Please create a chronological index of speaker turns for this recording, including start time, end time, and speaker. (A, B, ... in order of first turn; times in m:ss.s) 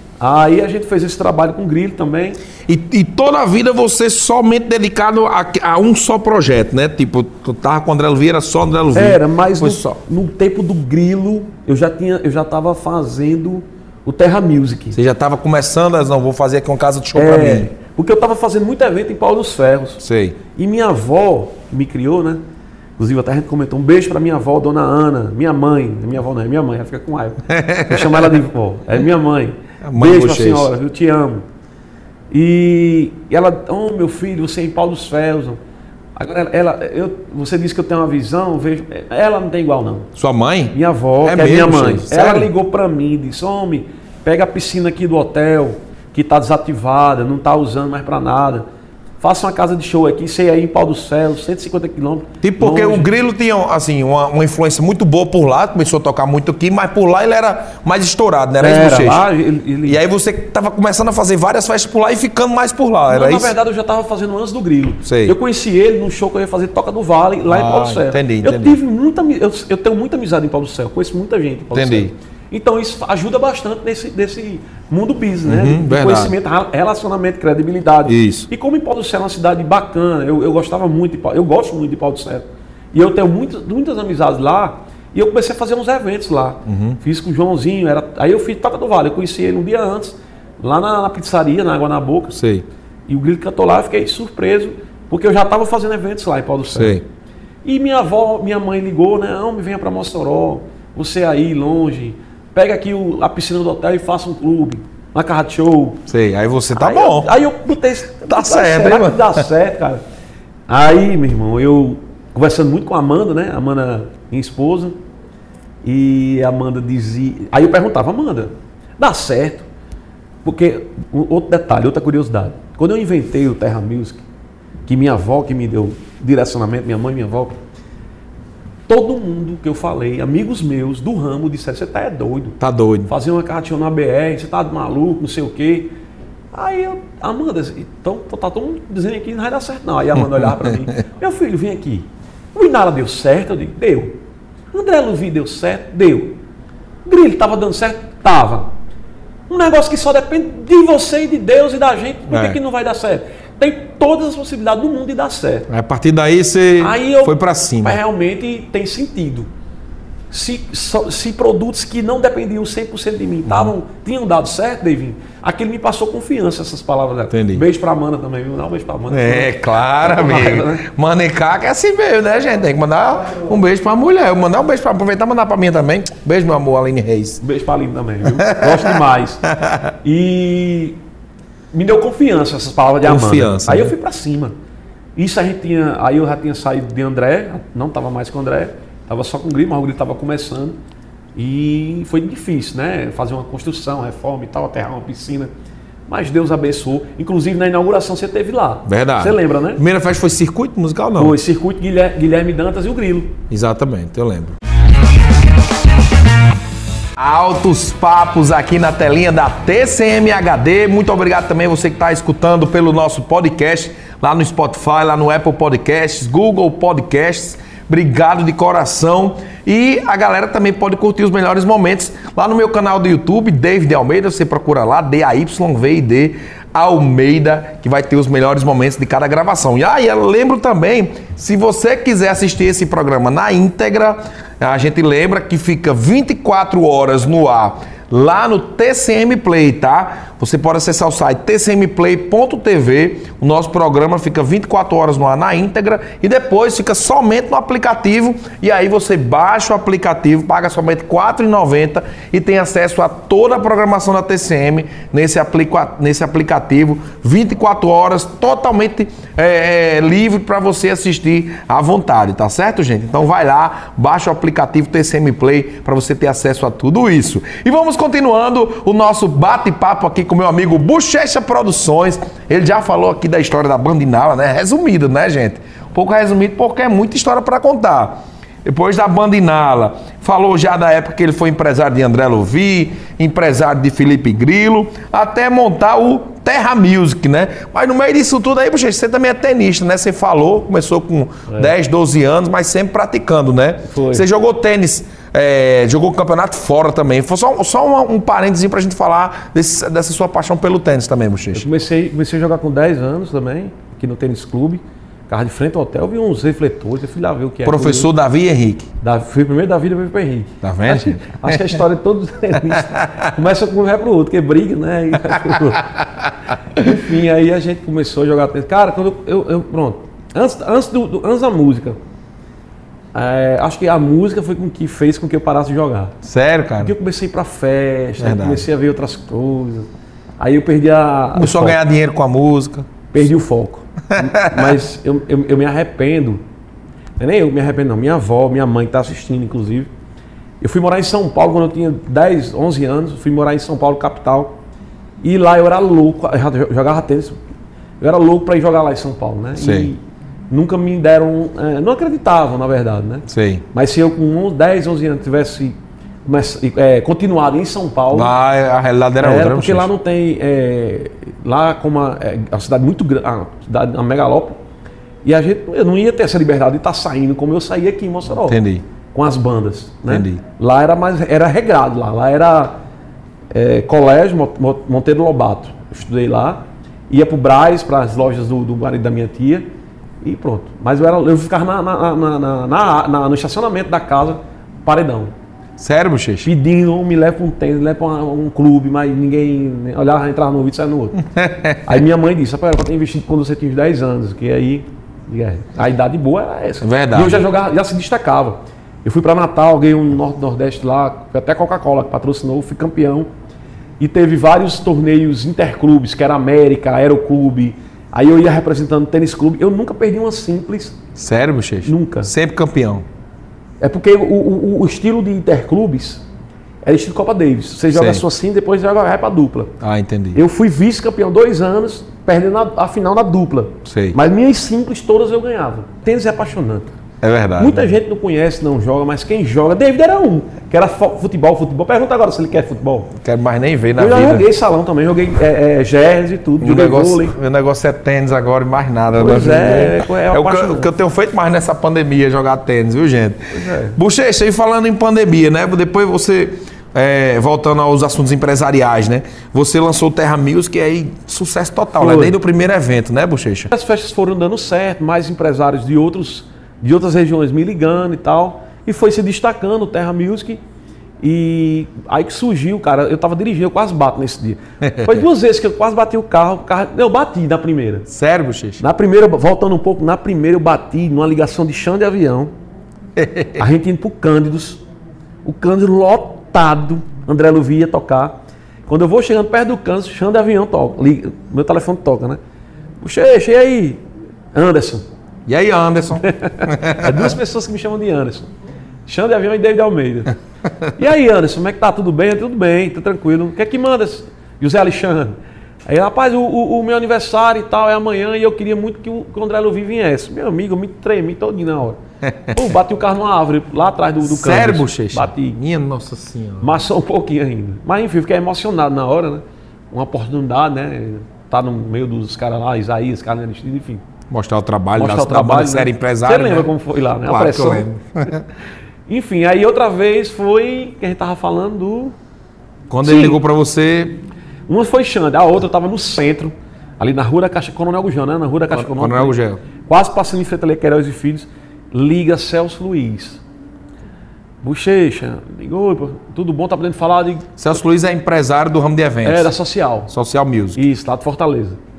0:00.2-0:02.4 A
0:02.6-0:09.9 B
0:08.9-0:15.0 A
0:14.9-0:17.7 B
0:17.1-0:20.0 A
0:20.0-0:20.4 B
0:20.5-0:22.4 A
0:23.0-0:31.4 A
0:27.5-0:28.4 B
0:29.8-0:30.7 B
0:32.3-0:35.6 A
0:36.2-0:40.1 A
0:40.2-0:42.5 B
0:40.7-0:48.6 A
0:49.2-0:53.1 A
0:52.4-0:59.2 B
0:58.6-1:00.0 A
0:59.8-1:03.5 B
1:03.1-1:32.4 A
1:05.0-1:05.4 B
1:07.5-1:08.8 B
1:11.7-1:12.1 B
1:15.4-1:16.3 B
1:18.0-1:18.5 B
1:26.6-1:27.0 B
1:32.3-1:32.6 B
1:33.1-1:37.0 A
1:36.7-1:37.0 B
1:37.6-1:46.0 A
1:46.1-1:47.3 B
1:46.7-1:50.0 A
1:48.3-1:49.4 B
1:50.7-1:55.0 A
1:55.8-1:59.7 A
2:00.4-2:04.2 A
2:04.9-2:07.6 A
2:08.9-2:15.9 A
2:12.6-2:13.1 B
2:16.5-2:24.2 A
2:20.3-2:20.7 B
2:24.7-2:26.4 A
2:27.0-2:28.7 A
2:29.5-2:35.7 A
2:32.3-2:32.6 B
2:35.7-2:38.0 B
2:36.8-2:39.5 A
2:40.3-2:50.8 A
2:43.4-2:43.7 B
2:47.3-2:47.6 B
2:49.1-2:57.4 B
2:57.4-2:59.4 A
2:58.2-2:59.9 B
3:00.0-3:01.0 A
3:01.7-3:04.5 A
3:03.0-3:03.9 B
3:05.2-3:10.8 A
3:11.4-3:15.5 A
3:16.1-3:19.8 A
3:18.8-3:21.4 B
3:21.2-3:23.4 A
3:23.5-3:24.6 B
3:27.2-5:01.6 B
4:53.8-4:54.2 A
5:01.5-5:08.1 A
5:07.6-5:08.9 B
5:09.0-5:16.0 A
5:10.6-5:11.8 B
5:12.6-5:13.3 B
5:15.3-5:16.0 B
5:16.7-5:22.0 A
5:23.1-5:26.2 A
5:26.2-5:26.9 B
5:26.8-5:29.9 A
5:28.2-5:28.6 B
5:30.4-5:31.8 A
5:31.3-5:32.9 B
5:33.1-5:36.4 A
5:34.1-5:34.8 B
5:37.2-5:39.9 A
5:40.6-5:44.6 A
5:45.2-5:47.4 A
5:48.0-5:55.7 A
5:49.6-5:49.9 B
5:53.3-5:53.6 B
5:56.2-5:58.3 A
5:58.1-5:59.9 B
5:59.2-6:04.6 A
6:05.2-6:08.6 A
6:08.4-6:08.8 B
6:09.1-6:12.8 A
6:10.1-6:10.4 B
6:13.5-6:19.6 A
6:20.2-6:25.3 A
6:25.8-6:26.5 B
6:26.4-6:31.2 A
6:31.2-6:32.0 B
6:31.8-6:43.3 A
6:36.8-6:37.4 B
6:44.0-6:51.0 A
6:51.2-6:53.0 B
6:51.8-6:52.3 A
6:53.8-6:56.2 A
6:56.8-6:59.7 A
6:57.9-6:58.2 B
6:59.8-7:00.4 B
7:00.3-7:06.9 A
7:03.8-7:04.2 B
7:07.2-7:08.0 B
7:07.6-7:13.1 A
7:13.1-7:14.5 B
7:14.0-7:17.4 A
7:16.6-7:33.7 B
7:19.1-7:20.9 A
7:23.5-7:24.0 A
7:32.0-7:32.4 A
7:33.7-7:40.6 A
7:41.2-7:48.1 A
7:44.8-7:45.2 B
7:48.1-7:48.8 B
7:48.8-7:52.5 A
7:53.2-7:53.7 B
7:53.6-7:54.8 A
7:55.4-8:02.4 A
8:03.0-8:04.0 A
8:04.5-8:05.0 A
8:05.5-8:07.4 B
8:06.2-8:08.5 A
8:09.0-8:10.3 A
8:10.6-8:10.9 B
8:10.9-8:15.3 A
8:15.8-8:22.0 A
8:22.2-8:22.7 B
8:22.5-8:25.6 A
8:24.2-8:26.8 B
8:26.6-8:34.0 A
8:34.3-8:38.5 B
8:35.0-8:37.8 A
8:39.1-8:42.1 A
8:42.9-8:44.2 B
8:43.0-8:43.4 A
8:44.7-8:53.4 A
8:48.7-8:49.6 B
8:54.6-8:57.5 A
8:57.6-8:59.5 B
8:59.2-9:00.1 A
9:00.1-9:00.8 B
9:00.8-9:01.8 A